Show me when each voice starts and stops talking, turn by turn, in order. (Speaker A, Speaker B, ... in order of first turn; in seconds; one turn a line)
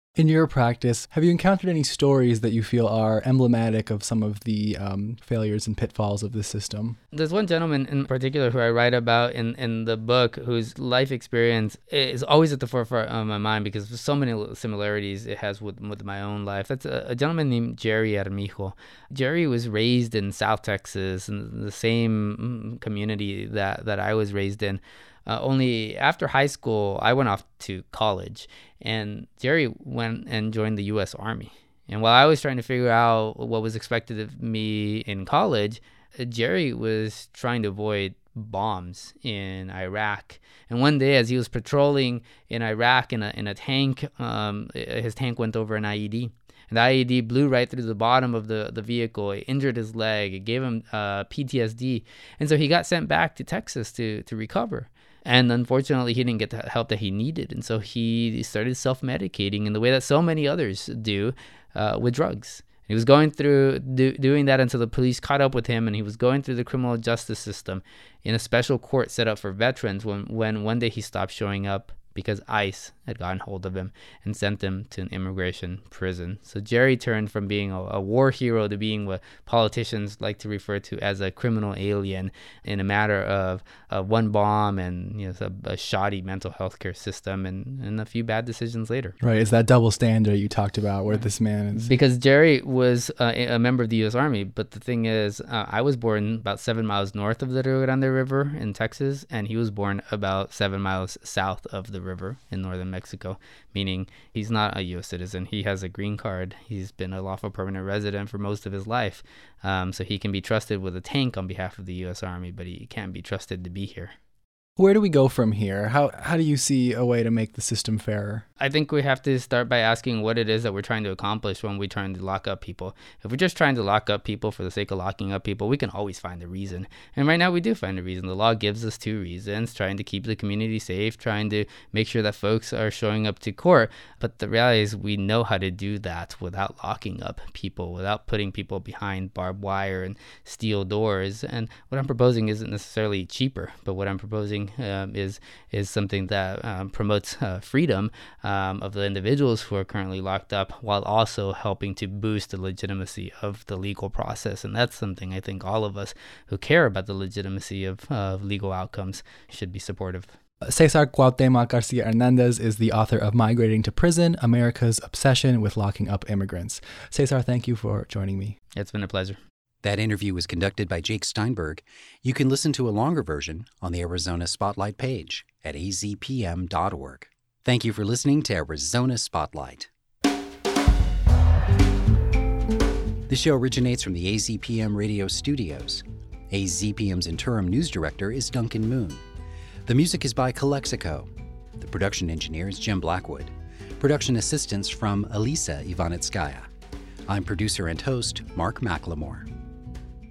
Speaker A: 0.2-7.0
Speaker B: 7.1-89.1
Speaker A: 89.2-91.9
Speaker B: 91.1-114.1
Speaker A: 114.8-118.4
Speaker B: 118.6-160.3
Speaker A: 160.7-168.6
Speaker B: 168.8-169.4
Speaker C: 169.8-179.9
Speaker C: 183.3-189.2
Speaker C: 189.8-196.7
Speaker C: 197.3-199.5